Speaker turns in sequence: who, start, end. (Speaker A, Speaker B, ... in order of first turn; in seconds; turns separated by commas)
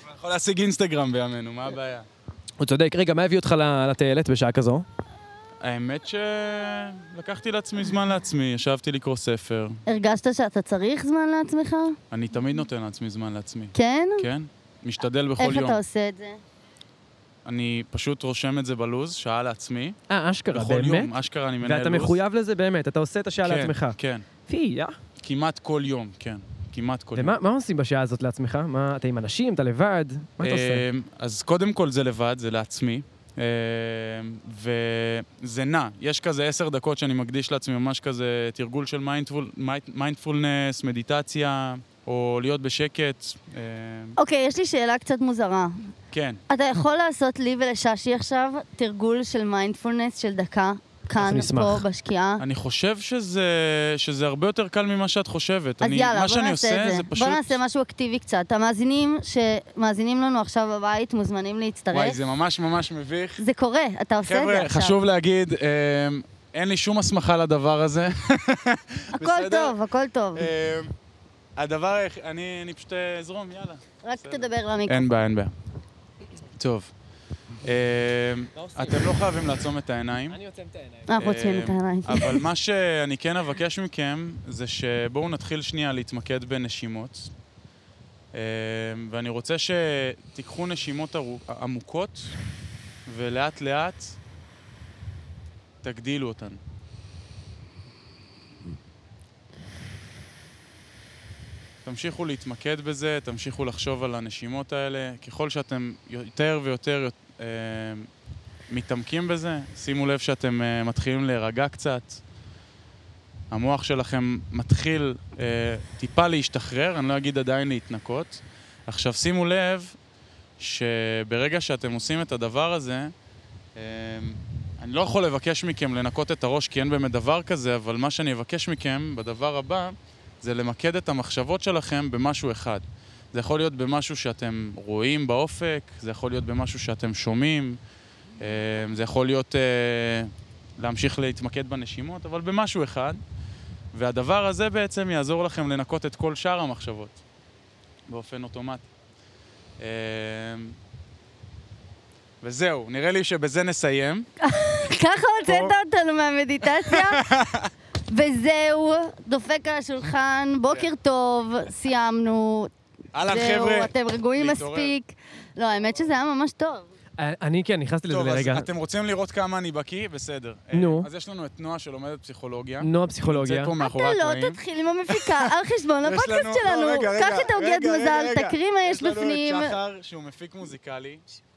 Speaker A: 0.1-2.0, Speaker B: 2.6-4.8, Speaker A: 5.6-9.8, Speaker C: 9.9-11.9, Speaker A: 12.1-15.8, Speaker C: 13.7-14.3, Speaker C: 15.4-16.4, Speaker A: 17.4-20.0, Speaker B: 20.1-25.0, Speaker A: 20.5-22.2, Speaker A: 23.4-24.2, Speaker A: 25.2-27.4, Speaker B: 27.1-30.8, Speaker A: 30.4-44.1, Speaker C: 44.2-45.8, Speaker A: 46.1-46.4, Speaker C: 46.5-52.4, Speaker B: 51.2-51.8, Speaker A: 52.4-57.6, Speaker C: 55.8-62.2, Speaker A: 61.9-63.4, Speaker C: 63.4-65.0, Speaker A: 64.2-69.7, Speaker C: 69.2-70.5, Speaker A: 70.3-70.9, Speaker A: 71.5-75.5, Speaker C: 74.0-75.1, Speaker A: 76.6-76.9, Speaker A: 77.6-80.4, Speaker B: 78.5-79.3, Speaker B: 80.3-81.1, Speaker C: 81.1-82.4, Speaker A: 81.2-87.3, Speaker A: 88.3-92.3, Speaker A: 93.1-94.2, Speaker A: 95.8-96.6, Speaker A: 101.8-108.1, Speaker A: 108.7-112.2, Speaker A: 113.5-120.0, Speaker A: 120.6-123.1, Speaker A: 123.8-137.8, Speaker A: 138.4-143.2, Speaker A: 143.9-147.2, Speaker A: 148.1-148.9, Speaker A: 149.8-150.8, Speaker A: 152.4-154.3, Speaker C: 154.4-157.2, Speaker A: 155.4-155.7, Speaker A: 156.9-157.7, Speaker C: 158.1-166.8, Speaker A: 163.1-164.9, Speaker B: 167.2-168.7, Speaker A: 168.1-174.6, Speaker B: 170.7-171.1, Speaker B: 172.8-173.7, Speaker C: 173.8-179.8, Speaker A: 175.1-175.5, Speaker A: 176.0-181.2